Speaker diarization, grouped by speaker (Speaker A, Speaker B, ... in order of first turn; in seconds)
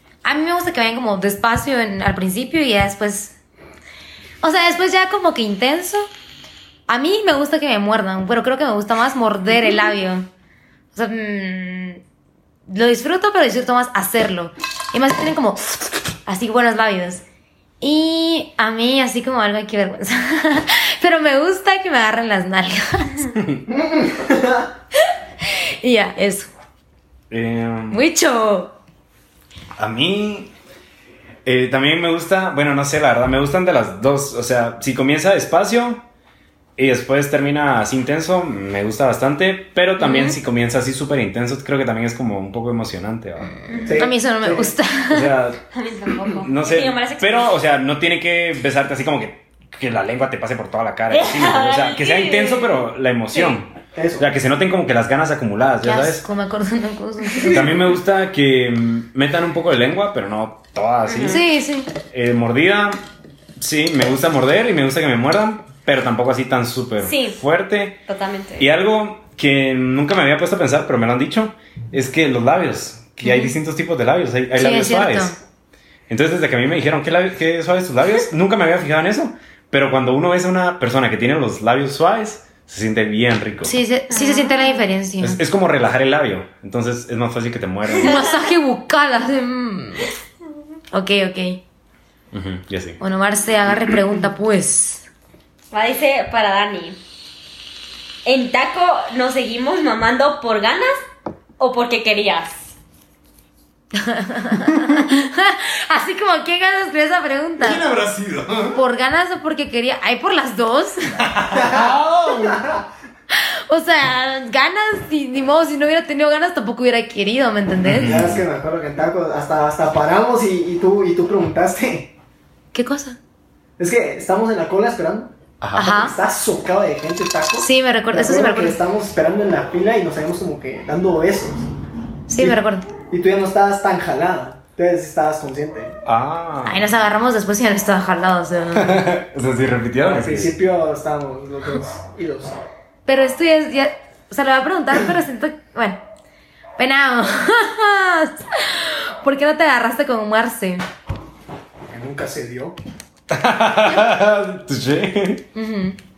Speaker A: 0.2-3.4, 4.4-6.1, 6.9-10.3, 10.9-12.0, 12.7-17.2, 17.8-23.3, 25.8-26.5, 27.9-28.8, 40.0-40.4, 43.7-45.3, 55.8-57.8, 61.3-61.9, 73.2-73.5, 74.6-75.4, 83.7-85.4, 87.9-90.1, 90.9-91.6, 93.0-95.1, 104.0-107.9, 108.7-111.2, 113.3-118.2, 122.7-123.2, 125.8-126.2, 127.6-128.8, 132.3-132.9, 136.6-139.0, 143.1-146.0, 146.8-150.8, 155.6-156.0
Speaker B: 23.4-23.6, 27.3-28.0, 29.8-30.5, 31.4-36.0, 36.8-43.6, 45.1-45.6, 46.3-56.2, 57.5-61.4, 62.1-63.0, 63.6-68.0, 68.6-75.4, 76.1-83.8, 85.2-88.2, 92.3-93.0, 107.6-108.8, 111.2-112.7, 117.8-118.4, 125.6-126.0, 136.1-136.9, 138.7-140.6, 153.3-155.4
Speaker C: 23.7-24.7, 43.9-44.7, 54.0-54.3, 111.5-112.8, 118.0-122.1, 123.8-131.7, 133.1-136.0, 140.0-142.6, 151.9-152.8
Speaker D: 43.7-44.0, 45.7-47.5, 51.1-53.6, 61.1-61.4, 67.0-67.4, 68.1-68.7, 84.1-84.8, 88.0-88.4, 95.7-97.0, 98.2-101.0, 101.6-102.7